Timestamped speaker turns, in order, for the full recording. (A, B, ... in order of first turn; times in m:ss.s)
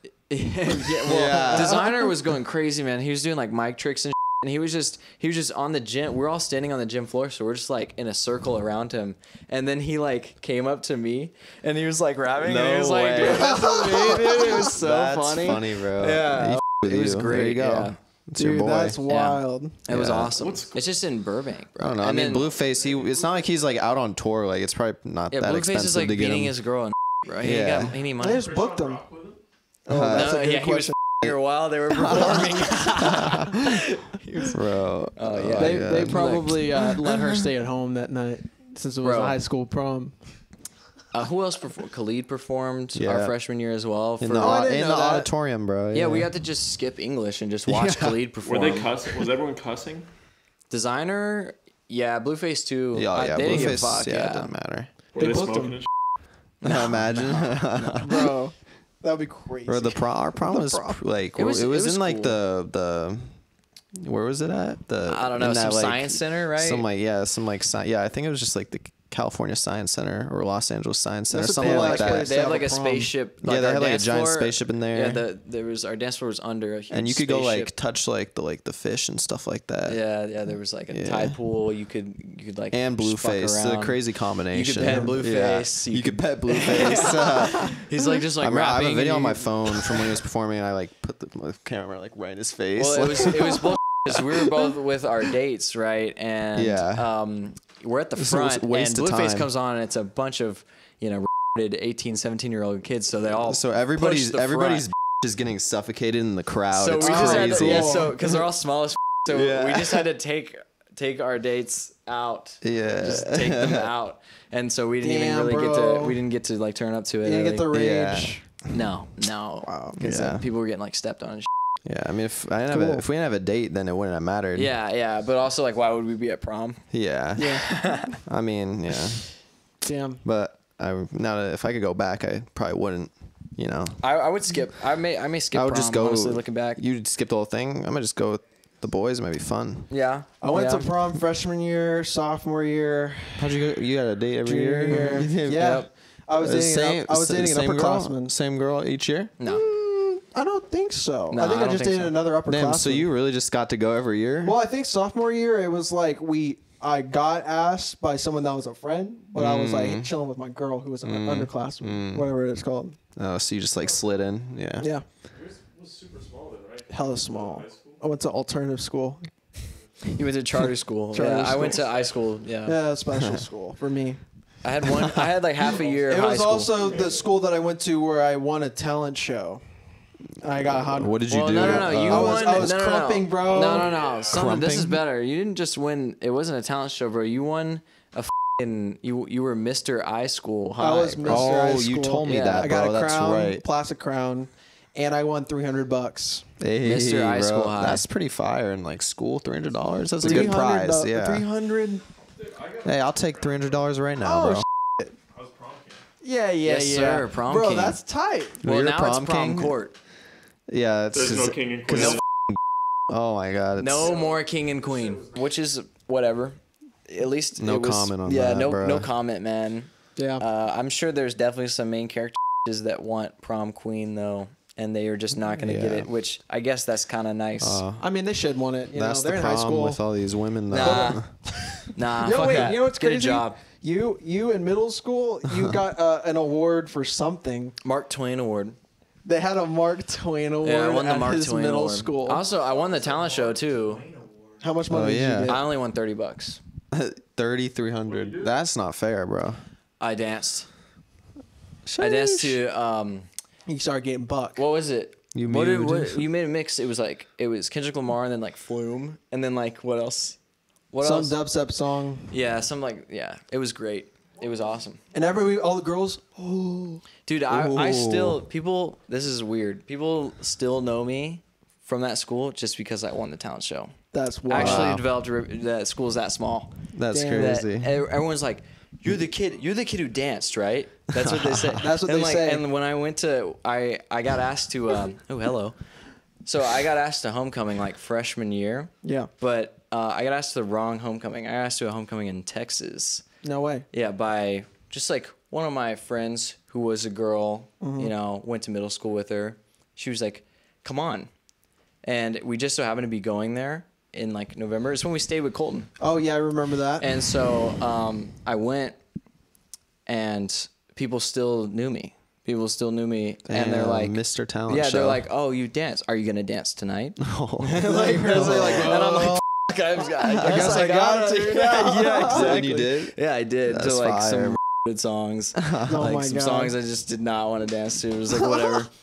0:00.3-0:18.0 A
0:01.0-0:01.8 B
0:01.2-0:01.9 C
0:12.4-0:19.0 B
0:13.2-0:14.8 C
0:18.4-0:19.8 C
0:19.1-0:22.5 A
0:19.9-0:20.4 B
0:20.4-0:20.9 D
0:21.8-0:26.5 B
0:25.3-0:28.6 A
0:27.4-0:28.0 B
0:28.2-0:29.0 C
0:28.3-0:29.4 D
0:29.8-0:31.0 C
0:29.9-0:30.6 B
0:30.1-0:34.6 A
0:32.0-0:33.8 B
0:32.1-0:32.5 C
0:34.4-0:37.2 B
0:35.1-0:36.8 A
0:35.5-0:40.2 C
0:39.0-0:39.4 A
0:41.1-0:44.7 A
0:42.9-0:43.3 B
0:44.2-0:46.3 B
0:44.4-0:45.3 C
0:45.9-0:48.9 A
0:47.7-0:48.1 B
0:48.4-0:50.1 D
0:50.7-0:54.5 A
0:52.9-0:54.9 B
0:55.1-0:55.9 D
0:55.2-0:55.8 C
0:56.6-0:58.3 B
0:56.6-0:58.0 A
0:58.0-1:01.0 C
0:59.6-1:03.4 B
1:01.4-1:02.4 A
1:04.0-1:12.3 B
1:05.1-1:06.8 A
1:11.3-1:13.1 C
1:11.6-1:17.7 A
1:13.4-1:15.2 B
1:16.9-1:20.0 B
1:19.8-1:30.0 A
1:20.9-1:21.4 B
1:22.7-1:34.2 B
1:24.8-1:25.2 C
1:32.8-1:44.9 A
1:36.5-1:37.0 B
1:38.2-1:39.5 B
1:43.4-1:48.4 B
1:46.7-1:57.7 A
1:47.0-1:48.1 C
1:49.3-1:50.1 B
1:52.6-1:53.9 B
1:55.0-1:56.2 C
1:57.2-1:58.4 C
1:57.7-1:58.4 B
1:58.7-2:01.5 A
1:59.6-2:00.0 C
2:00.0-2:00.5 B
2:01.8-2:04.7 B
2:02.7-2:03.0 C
2:04.5-2:08.1 A
2:06.9-2:09.4 B
2:07.4-2:07.6 C
2:09.8-2:10.2 C
2:10.2-2:14.0 B
2:14.0-2:16.8 A
2:15.5-2:19.9 B
2:19.9-2:20.9 A
2:20.4-2:23.7 C
2:23.4-2:25.8 B
2:24.4-2:28.3 C
2:24.9-2:25.9 A
2:26.4-2:29.3 B
2:29.4-2:29.6 A
2:29.4-2:33.0 C
2:31.3-2:32.2 A
2:32.5-2:34.5 B
2:34.4-2:43.0 C
2:39.4-2:40.1 B
2:41.0-2:42.3 B
2:43.2-2:44.9 B
2:44.8-2:45.0 C
2:45.3-2:48.0 D
2:46.9-2:49.3 C
2:50.1-2:52.8 A
2:51.1-2:52.0 C
2:52.6-2:54.2 C
2:54.6-2:56.7 A
2:56.1-2:59.6 C
2:56.8-2:57.2 D
3:00.4-3:04.1 C
3:00.6-3:02.7 B
3:01.3-3:11.5 A
3:03.5-3:04.4 D
3:04.2-3:05.0 B
3:10.8-3:16.5 C
3:11.2-3:13.6 B
3:12.2-3:12.7 A
3:16.6-3:21.5 B
3:16.8-3:18.0 A
3:20.2-3:22.0 C
3:20.2-3:20.5 A
3:22.4-3:23.6 D
3:22.8-3:24.6 B
3:24.2-3:25.1 C
3:25.3-3:26.0 D
3:26.2-3:28.6 C
3:26.6-3:28.0 A
3:28.6-3:29.8 B
3:28.6-3:29.9 A
3:30.7-3:32.6 B
3:31.1-3:32.2 D
3:32.0-3:32.2 A
3:33.1-3:34.2 B
3:33.8-3:47.8 A
3:37.6-3:39.1 B
3:40.2-3:40.4 C
3:45.6-3:46.1 B
3:47.6-3:48.0 B
3:48.0-3:50.0 C
3:48.9-3:51.5 B
3:50.7-3:51.2 A
3:50.7-3:57.8 C
3:51.9-3:53.6 A
3:55.5-3:55.8 B
3:57.8-3:58.8 A
3:59.2-4:02.5 C
4:00.6-4:04.1 A
4:04.6-4:05.6 C
4:04.9-4:05.6 B
4:05.5-4:06.6 A
4:06.9-4:09.6 B
4:08.1-4:08.5 D
4:10.0-4:10.7 A
4:12.0-4:12.5 C
4:12.0-4:13.3 A
4:13.7-4:14.6 C
4:14.6-4:20.4 A
4:15.3-4:16.3 B
4:20.9-4:21.4 A
4:21.0-4:22.3 C
4:22.3-4:25.0 A
4:25.1-4:27.0 C
4:27.2-4:53.2 A
4:27.5-4:28.4 B
4:34.1-4:35.0 C
4:34.5-4:35.0 B
4:36.9-4:38.0 B
4:37.1-4:37.6 C
4:41.2-4:41.8 B
4:41.8-4:42.6 C
4:49.0-4:49.3 C
4:53.4-4:53.9 C
4:53.9-5:01.3 A
4:57.8-4:58.1 C
5:02.0-5:05.9 A
5:06.0-5:07.1 C
5:07.0-5:09.0 A
5:10.1-5:28.9 A
5:13.5-5:15.2 B
5:17.2-5:19.3 B
5:17.8-5:19.4 C
5:20.2-5:20.9 B
5:20.3-5:22.8 C
5:22.3-5:24.6 B
5:25.6-5:26.2 B
5:25.8-5:26.8 C